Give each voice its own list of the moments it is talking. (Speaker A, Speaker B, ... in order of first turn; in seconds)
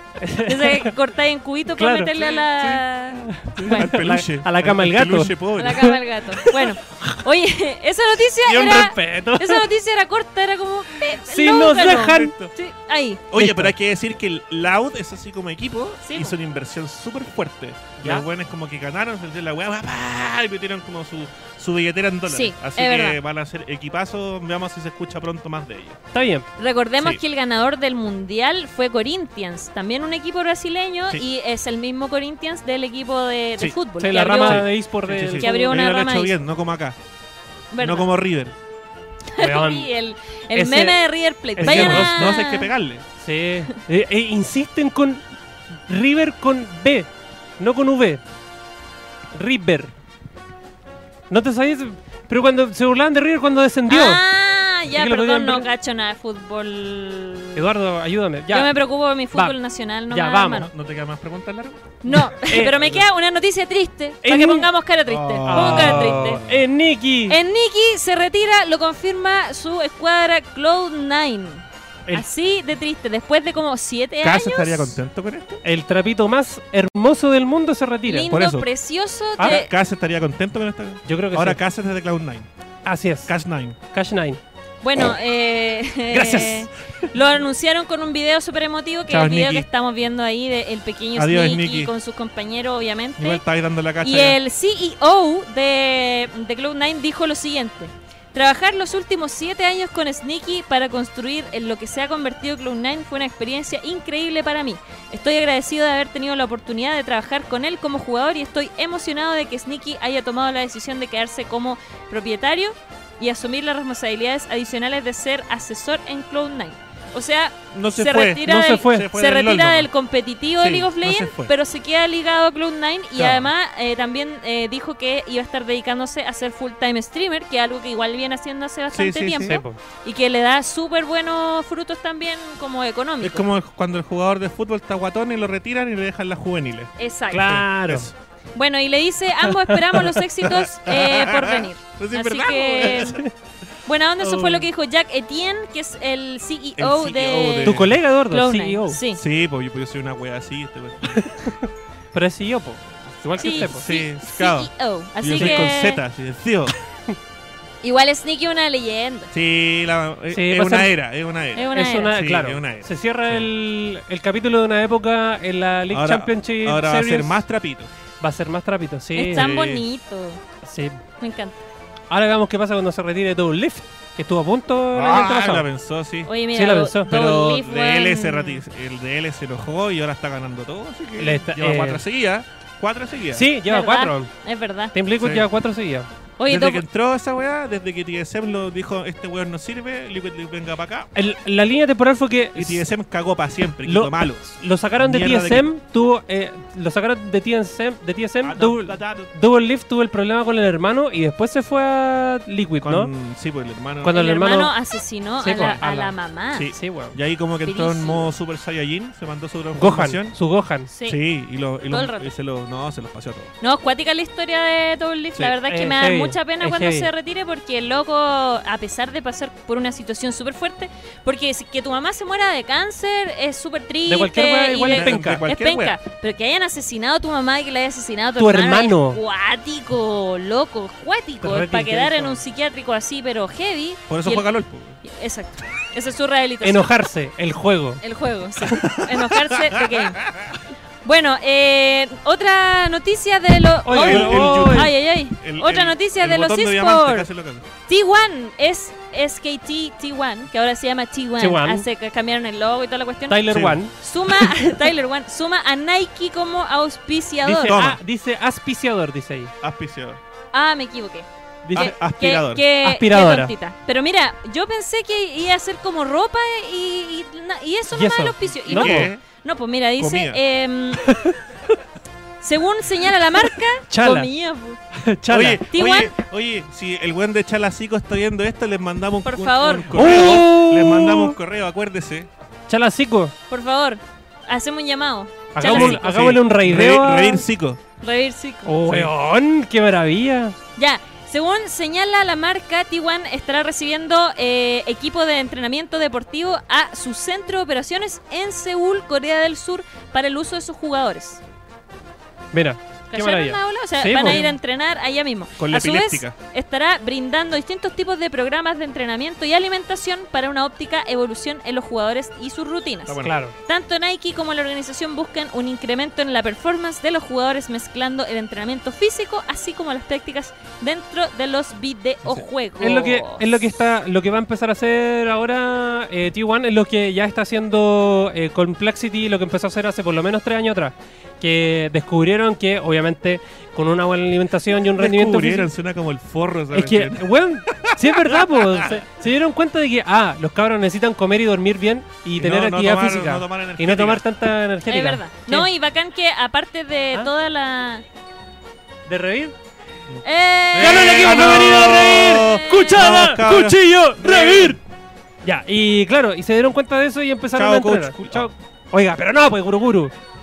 Speaker A: 0.2-0.9, 1.8-2.4, 3.3-7.2, 8.5-9.7, 11.0-12.3, 13.3-13.7, 18.0-18.2, 26.1-26.5, 34.0-35.7, 39.4-39.9, 40.5-41.0, 41.6-42.4, 43.2-45.2, 45.9-48.2, 49.3-49.9, 51.3-54.2, 54.9-55.7, 57.5-58.7, 60.1-60.7, 62.1-62.9, 64.2-64.7, 65.5-67.4, 75.6-78.3, 81.1-81.6, 82.8-83.3, 83.9-84.4, 86.1-86.7, 118.4-119.1, 129.4-129.8, 137.3-138.1, 139.6-140.2, 143.0-143.3, 144.2-144.7, 147.6-149.0, 151.2-153.8, 155.3-155.7, 160.3-160.9, 161.7-167.4, 168.2-169.5, 170.6-171.0, 172.1-175.7, 176.5-177.1, 181.2-182.0, 183.3-184.3, 184.9-186.1, 191.2-192.8, 193.8-203.1, 204.0-204.7, 205.4-206.1, 206.7-207.2, 209.8-210.9, 215.7-217.1, 224.1-225.4, 228.4-229.2, 231.4-232.4, 236.6-238.0, 243.8-244.9, 251.4-251.9, 253.3-253.9, 257.4-259.5, 262.8-263.5, 267.9-269.1, 271.0-271.7, 273.9-274.3, 274.9-275.6, 279.9-281.4, 282.7-283.3, 285.6-287.4, 288.6-290.6, 302.5-304.5, 313.2-313.5, 322.8-335.7, 336.7-345.7, 349.1-349.5, 350.8-354.8, 355.4-360.1
Speaker B: 0.4-4.0, 5.6-13.2, 16.1-16.4, 22.3-23.2, 26.6-34.7, 35.4-36.4, 37.7-38.1, 39.3-42.7, 53.9-57.6, 58.5-60.7, 62.0-66.4, 67.3-75.0, 78.1-79.7, 84.8-93.4, 94.0-133.4, 137.0-137.6, 138.6-143.2, 143.9-149.2, 153.4-156.0, 157.8-159.3, 161.6-162.2, 169.2-170.4, 171.2-171.6, 176.3-178.6, 183.7-184.9, 186.4-186.8, 204.1-206.7, 207.6-208.3, 210.9-211.2, 211.9-212.3, 213.6-234.5, 235.0-236.9, 238.0-240.3, 241.1-247.3, 247.9-257.8, 260.5-271.1, 272.4-274.8, 275.7-276.1, 279.2-280.5, 283.5-286.0, 288.0-288.8, 290.8-301.4, 303.1-323.6, 344.9-348.0, 350.2-353.2
Speaker C: 2.4-2.8, 3.4-5.9, 8.5-8.8, 11.8-12.5, 13.3-26.0, 34.3-37.0, 37.8-38.5, 41.6-43.0, 60.5-62.0, 62.7-63.0, 65.1-66.6, 74.2-75.6, 78.3-78.7, 79.4-82.5, 83.3-83.8, 89.1-89.7, 91.2-91.9, 93.2-94.4, 117.7-119.9, 120.6-121.5, 123.2-123.5, 128.9-129.6, 133.2-138.1, 140.4-143.2, 146.8-148.0, 149.2-151.6, 153.3-156.7, 159.3-163.5, 165.9-167.9, 169.3-169.8, 174.9-176.3, 177.0-183.5, 185.2-185.5, 186.5-191.1, 192.6-195.7, 198.4-199.3, 202.8-204.2, 206.5-210.4, 211.1-213.5, 224.9-226.0, 234.1-235.0, 238.7-240.6, 243.9-247.7, 253.5-253.8, 257.7-258.0, 259.6-260.2, 261.7-262.6, 268.6-269.2, 270.0-270.4, 275.3-282.3, 285.6-287.8, 288.9-289.1, 305.6-306.4, 313.1-313.4, 334.9-339.0, 342.4-344.2, 350.7-354.8, 357.6-358.5